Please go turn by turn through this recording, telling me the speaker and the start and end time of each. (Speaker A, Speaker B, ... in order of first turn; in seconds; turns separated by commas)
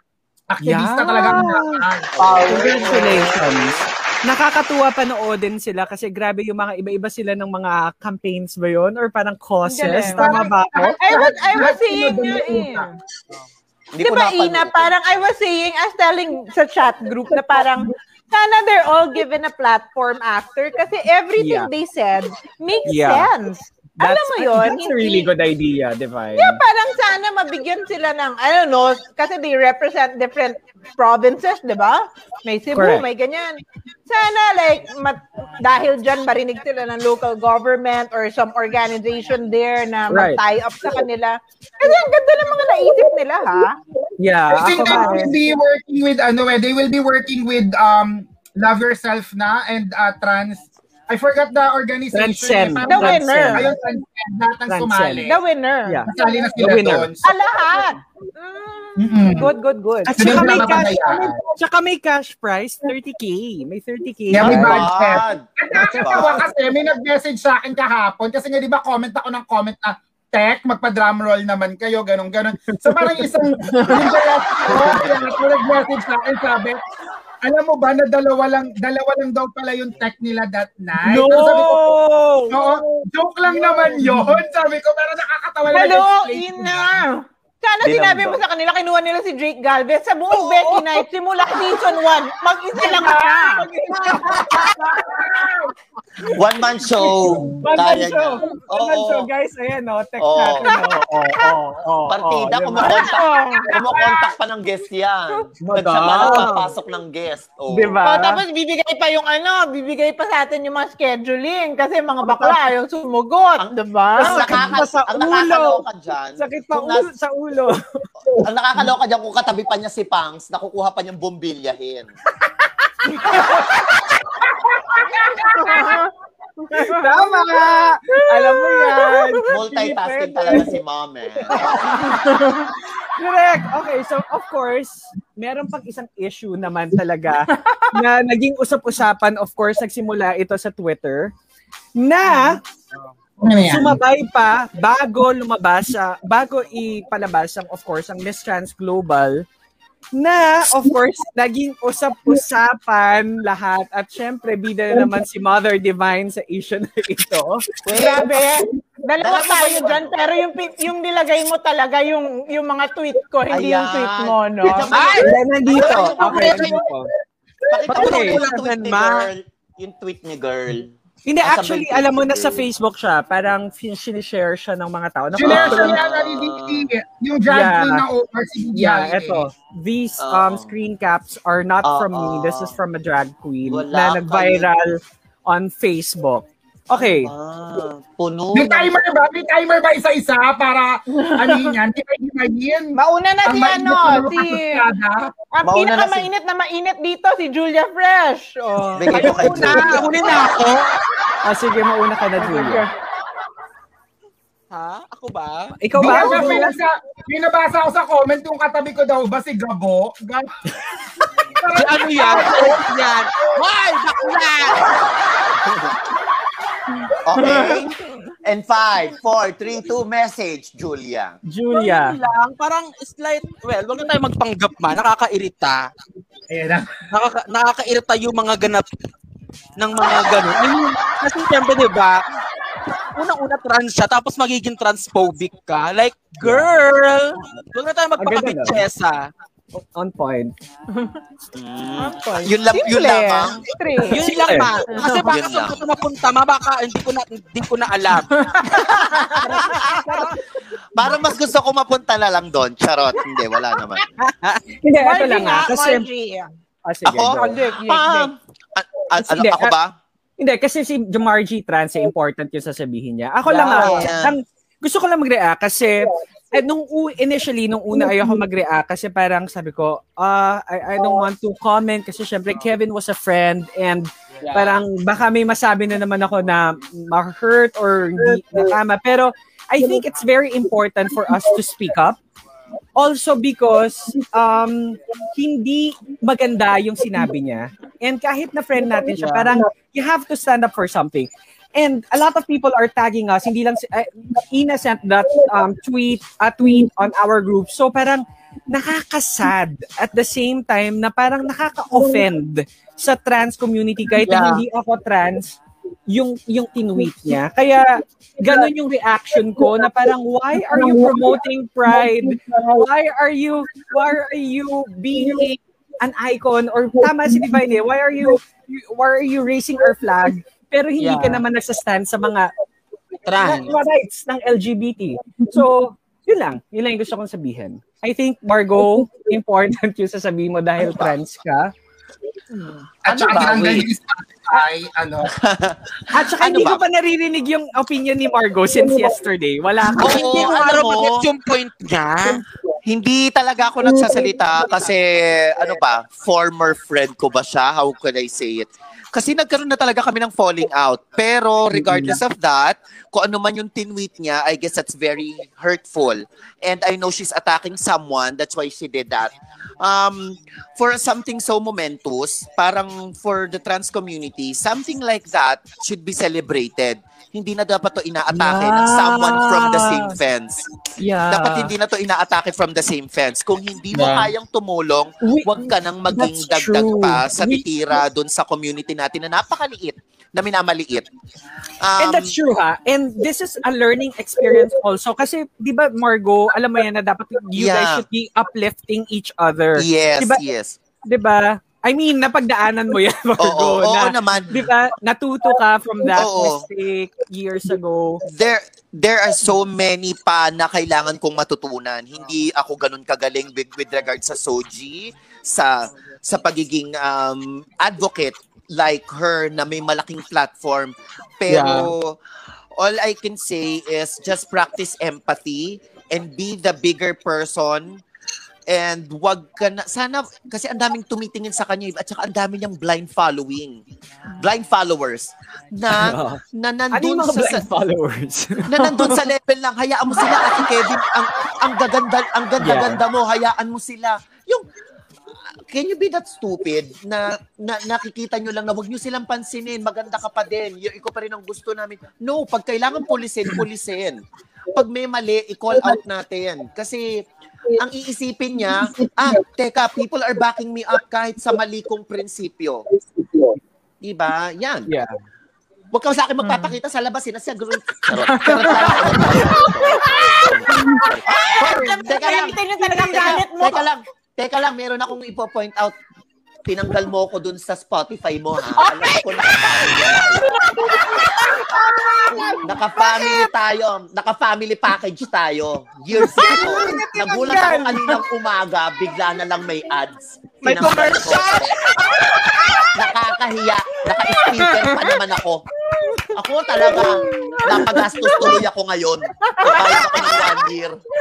Speaker A: 0.5-3.0, Speaker B: 0.6-11.0, Speaker C: 2.1-3.7, Speaker D: 9.7-10.5, Speaker A: 10.2-12.9, Speaker D: 11.0-12.9, Speaker C: 13.9-15.0, Speaker D: 14.0-25.3, Speaker B: 21.4-21.7, Speaker B: 22.9-23.3, Speaker B: 24.0-26.6, Speaker D: 26.4-43.8, Speaker B: 32.7-33.1, Speaker B: 40.1-40.4, Speaker B: 44.2-45.3, Speaker A: 44.5-55.4, Speaker D: 44.7-45.4, Speaker B: 52.1-53.8, Speaker D: 52.9-53.7, Speaker B: 54.7-55.3, Speaker D: 55.3-56.1, Speaker B: 55.9-57.1, Speaker A: 56.1-57.3, Speaker D: 57.2-60.4, Speaker A: 59.0-59.5, Speaker B: 60.0-64.8, Speaker A: 60.1-61.3, Speaker A: 64.3-76.8, Speaker C: 64.4-66.5, Speaker B: 72.8-74.0, Speaker A: 77.4-82.0, Speaker B: 81.0-83.0, Speaker A: 82.5-86.9, Speaker B: 83.7-84.2, Speaker D: 85.7-94.3, Speaker C: 87.8-88.4, Speaker B: 90.3-90.9, Speaker A: 92.8-95.7, Speaker B: 93.5-95.2, Speaker C: 96.3-99.3, Speaker B: 97.6-103.1, Speaker C: 100.2-100.7, Speaker D: 100.6-101.5, Speaker C: 102.1-108.0, Speaker D: 102.8-103.7, Speaker B: 105.6-106.7, Speaker B: 107.7-108.4, Speaker D: 108.0-114.8, Speaker C: 113.6-117.1, Speaker B: 114.2-115.8, Speaker B: 116.4-117.8, Speaker C: 118.3-122.1, Speaker D: 125.5-126.1, Speaker D: 126.6-127.6, Speaker B: 126.7-130.7, Speaker D: 128.2-129.4, Speaker C: 129.5-131.7, Speaker B: 131.5-132.3, Speaker D: 132.0-132.7, Speaker B: 133.2-141.3, Speaker D: 137.5-137.9, Speaker B: 142.0-142.6, Speaker A: 143.4-144.0, Speaker B: 143.6-149.5, Speaker B: 150.2-157.7, Speaker C: 157.8-158.5, Speaker D: 157.9-165.1, Speaker C: 159.2-160.2, Speaker C: 163.5-166.8, Speaker E: 164.9-166.9, Speaker B: 165.2-167.1, Speaker C: 167.7-172.7, Speaker B: 167.9-168.4, Speaker E: 167.9-169.3, Speaker B: 171.3-176.0, Speaker A: 175.3-179.5, Speaker C: 175.4-176.9, Speaker B: 177.5-178.1, Speaker B: 178.7-187.3, Speaker C: 180.2-180.8, Speaker C: 181.8-182.8, Speaker C: 183.7-184.7, Speaker C: 186.9-189.0, Speaker A: 188.5-195.3, Speaker D: 191.2-191.7, Speaker D: 192.9-194.9, Speaker D: 195.6-200.3, Speaker C: 195.6-196.3, Speaker C: 199.0-200.2, Speaker B: 199.1-199.9, Speaker E: 199.5-200.9, Speaker B: 201.4-202.8, Speaker D: 202.4-202.9, Speaker E: 204.7-205.7, Speaker B: 205.8-206.7, Speaker A: 206.0-210.5, Speaker D: 206.0-206.7, Speaker A: 211.6-212.8, Speaker E: 211.7-214.8, Speaker C: 217.3-221.4, Speaker B: 221.5-222.2, Speaker E: 221.7-225.9, Speaker A: 226.5-226.9, Speaker E: 227.1-228.9, Speaker E: 229.8-232.2, Speaker E: 233.2-239.3, Speaker B: 236.4-236.7, Speaker B: 238.2-238.8, Speaker B: 239.8-240.5, Speaker D: 240.9-241.2, Speaker C: 241.6-243.7, Speaker D: 242.0-244.4, Speaker E: 244.1-248.4, Speaker B: 244.4-244.7, Speaker D: 244.9-245.3, Speaker C: 245.0-245.8, Speaker D: 248.4-248.9, Speaker C: 248.9-250.2, Speaker C: 250.9-254.0, Speaker B: 254.4-256.1, Speaker D: 255.0-256.5, Speaker B: 256.9-257.6, Speaker C: 257.1-259.9, Speaker D: 257.3-258.3, Speaker B: 259.2-259.7, Speaker B: 260.4-282.2, Speaker C: 263.5-264.4, Speaker E: 263.5-263.8, Speaker E: 274.4-274.8, Speaker B: 283.0-305.6, Speaker E: 289.2-289.6, Speaker C: 304.3-304.6, Speaker B: 306.1-322.5, Speaker E: 321.0-321.4, Speaker E: 323.3-323.7, Speaker B: 323.4-331.7, Speaker C: 330.8-331.2, Speaker A: 333.0-335.3, Speaker C: 333.1-333.9, Speaker C: 335.3-336.8, Speaker B: 336.1-340.5, Speaker C: 340.0-341.2, Speaker E: 340.0-342.4, Speaker C: 342.9-370.6, Speaker B: 351.8-352.2, Speaker B: 368.3-370.2, Speaker B: 371.0-371.7, Speaker C: 371.3-381.1, Speaker E: 373.9-374.3, Speaker B: 375.2-377.7, Speaker C: 381.8-382.4, Speaker B: 382.0-390.4, Speaker C: 387.6-388.1, Speaker C: 389.8-390.8, Speaker B: 391.1-398.2, Speaker C: 393.4-394.7, Speaker C: 396.1-396.7, Speaker C: 398.2-412.2, Speaker E: 411.5-411.9, Speaker C: 412.8-418.0, Speaker C: 418.7-423.8, Speaker C: 424.4-427.7, Speaker B: 425.9-426.4, Speaker B: 426.9-429.3, Speaker C: 428.7-434.6, Speaker B: 432.6-433.0, Speaker C: 435.7-452.9, Speaker C: 454.0-454.9, Speaker B: 454.9-455.1, Speaker C: 455.9-466.0, Speaker D: 458.4-460.6, Speaker D: 461.3-463.9, Speaker C: 466.7-470.5, Speaker B: 471.6-473.2, Speaker C: 472.6-481.7, Speaker B: 476.1-478.2, Speaker E: 480.6-482.7, Speaker C: 482.9-485.6, Speaker C: 486.4-491.0, Speaker D: 486.8-488.5, Speaker D: 489.5-490.3